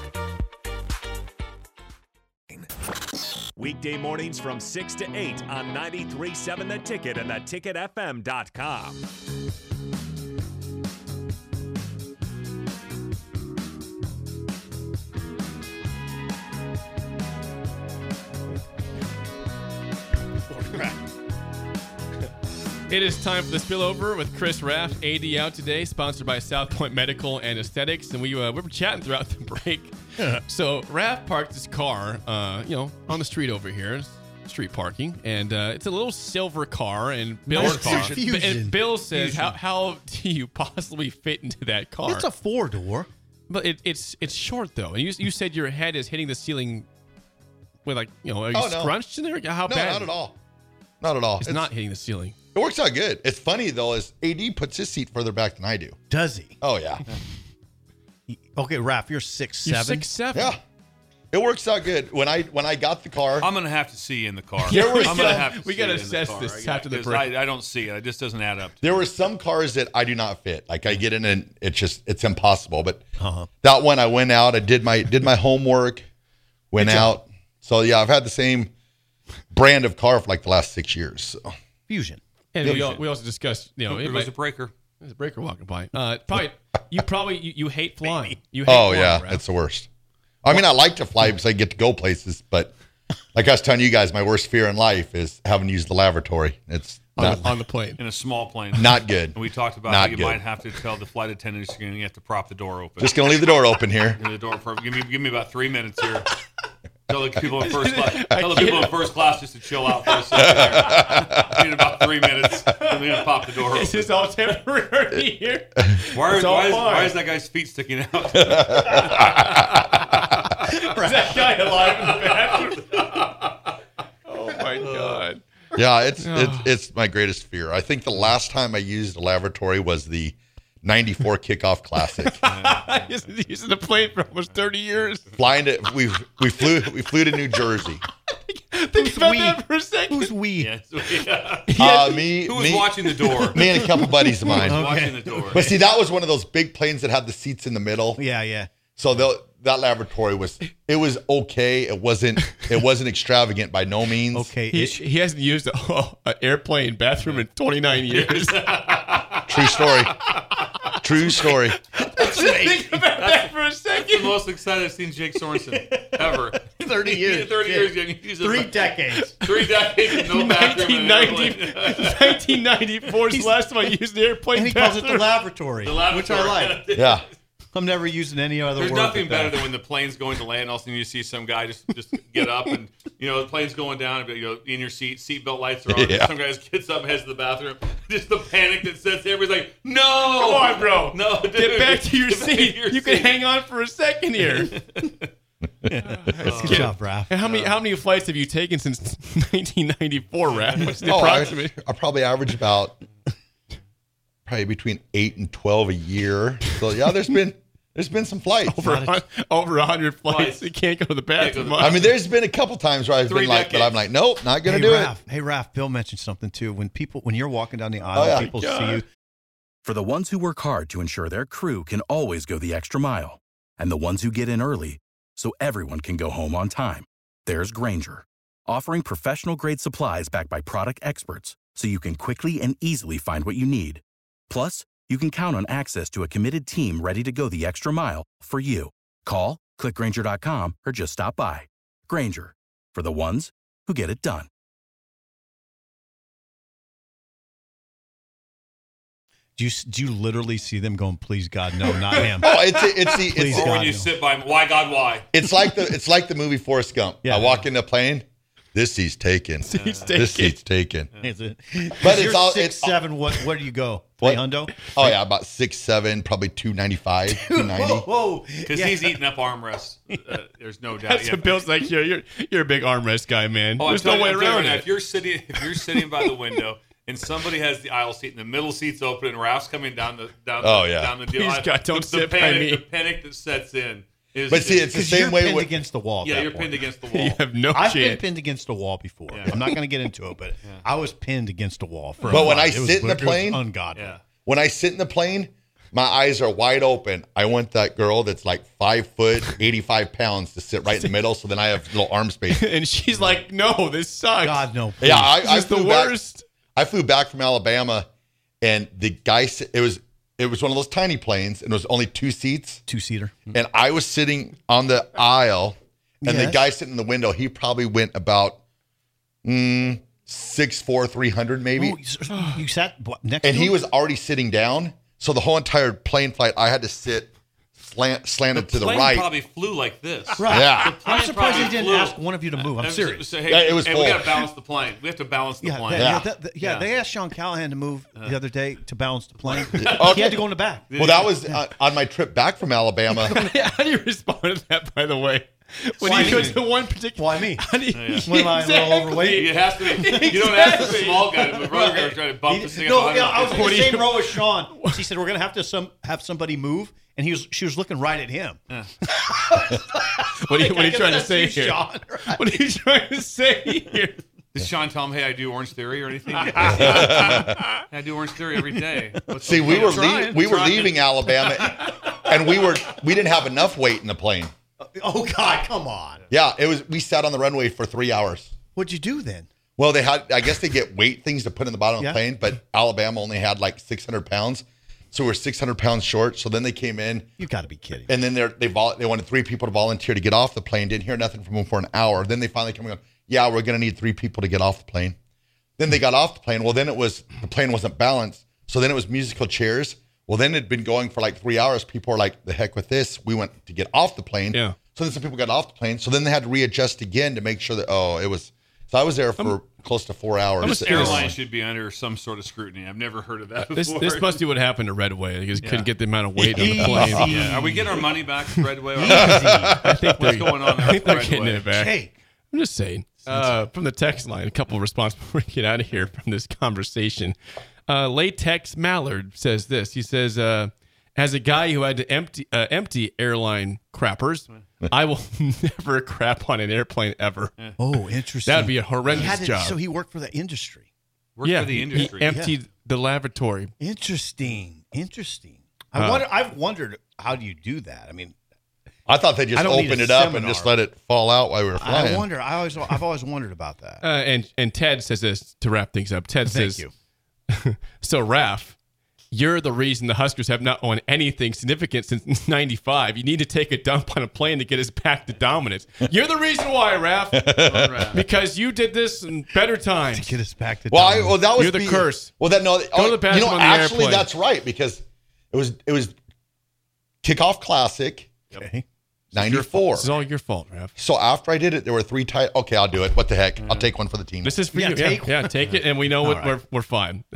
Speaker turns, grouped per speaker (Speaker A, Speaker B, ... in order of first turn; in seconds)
Speaker A: 3.7-8.8
Speaker B: 20.5-20.9, 37.5-39.6, 42.0-43.1, 56.1-56.5, 58.3-60.1, 73.2-73.5, 76.8-77.1, 81.9-82.2, 88.0-88.4, 138.9-140.7, 144.7-145.8, 148.2-148.8, 154.3-155.0, 162.0-163.4, 165.5-169.4, 173.2-173.6, 174.5-176.9, 177.7-179.7, 196.4-197.4, 208.8-209.2, 214.6-219.0, 249.6-254.2, 257.2-257.5, 261.2-265.2, 267.3-269.2, 284.9-286.9, 287.7-294.2, 304.4-305.4, 312.9-313.5, 316.2-316.7, 321.8-323.8, 330.4-333.4, 335.6-340.9, 346.0-351.2, 351.7-358.6, 359.4-362.6, 368.6-369.4, 374.8-376.2, 378.8-379.5, 387.4-388.2, 416.4-418.2, 418.9-419.7, 421.7-422.1, 423.2-423.6, 437.8-440.9, 442.0-442.6, 443.8-448.3, 449.5-450.7, 451.8-454.0, 456.4-456.9, 470.1-471.5, 478.5-478.8, 484.7-485.6, 486.2-486.6
Speaker C: 22.9-29.9, 30.5-42.3, 43.5-46.9, 47.8-50.1, 51.4-52.4, 59.6-60.5, 64.6-67.4, 82.5-84.3, 85.0-89.4, 97.2-98.0, 107.6-109.1, 110.1-111.4, 112.7-117.2, 119.4-119.8, 120.5-123.5, 124.3-125.4, 126.2-126.7, 132.2-135.3, 138.4-140.3, 141.0-142.3, 143.0-144.5, 154.7-158.8, 161.9-164.4, 169.1-175.4, 190.2-194.7, 195.8-201.7, 208.7-212.1, 218.3-219.0, 259.6-260.6, 271.0-275.1, 275.8-276.2, 281.2-282.8, 287.1-288.2, 292.2-292.5, 302.5-304.7, 305.4-306.4, 343.2-351.8, 353.5-355.1, 359.1-359.7, 360.4-364.2, 404.5-404.8, 410.6-411.4, 413.7-417.5, 418.3-422.0, 422.5-427.4, 427.9-439.8, 441.4-443.7, 445.9-446.3, 454.0-456.9, 457.5-458.8, 459.3-470.4, 471.5-472.3, 472.9-474.3, 479.3-480.9, 484.4-487.3
Speaker D: 37.5-38.2, 48.5-48.9, 49.6-50.4, 51.0-51.7, 52.5-56.0, 56.6-57.0, 60.3-60.6, 61.3-63.5, 68.8-73.0, 73.6-76.0, 76.7-78.7, 79.5-81.5, 82.6-83.0, 88.7-89.9, 90.4-92.7, 93.3-97.5, 98.7-100.4, 103.0-104.2, 110.8-111.0, 118.4-119.5, 125.7-132.4, 135.3-138.0, 141.7-148.2, 148.9-154.5, 159.5-160.1, 161.0-161.8, 176.9-177.2, 185.9-186.3, 201.0-203.0, 204.4-208.8, 211.8-215.1, 218.1-218.5, 252.4-253.7, 255.3-261.1, 262.0-262.9, 264.2-268.1, 280.6-281.2, 284.5-285.7, 292.3-293.6, 294.4-302.7, 305.0-306.1, 306.7-308.1, 308.6-312.8, 313.5-318.6, 319.4-322.0, 323.4-329.3, 330.5-331.0, 333.4-334.4, 335.9-336.3, 339.7-343.3, 366.6-367.6, 369.4-374.5, 376.3-378.5, 379.8-387.3, 388.1-395.1, 395.8-411.4, 419.0-419.9, 449.1-452.3, 467.3-468.1, 470.9-476.1, 477.2-478.3, 479.3-480.1, 481.0-484.6
Speaker E: 63.4-68.8, 83.9-84.7, 98.0-103.2, 104.1-106.3, 107.1-114.1, 116.1-119.3, 120.8-123.1, 124.7-125.2, 132.4-133.2, 140.6-141.7, 142.4-143.6, 144.6-145.6, 158.0-159.5, 163.9-172.5, 175.8-177.2, 178.8-193.4, 194.6-195.3, 196.4-196.9, 197.4-197.8, 210.3-210.7, 211.4-211.8, 213.2-214.1, 253.5-255.3, 259.7-260.1, 268.7-271.6, 273.8-285.1, 286.2-287.4, 289.3-289.6, 293.9-294.2, 328.5-336.1, 336.6-336.9, 339.4-341.4, 346.2-346.6, 347.9-348.2, 349.3-353.8, 364.5-371.1, 410.6-414.4, 417.2-421.7, 441.4-442.4, 467.6-468.2, 483.6-483.9
Speaker F: 219.8-244.5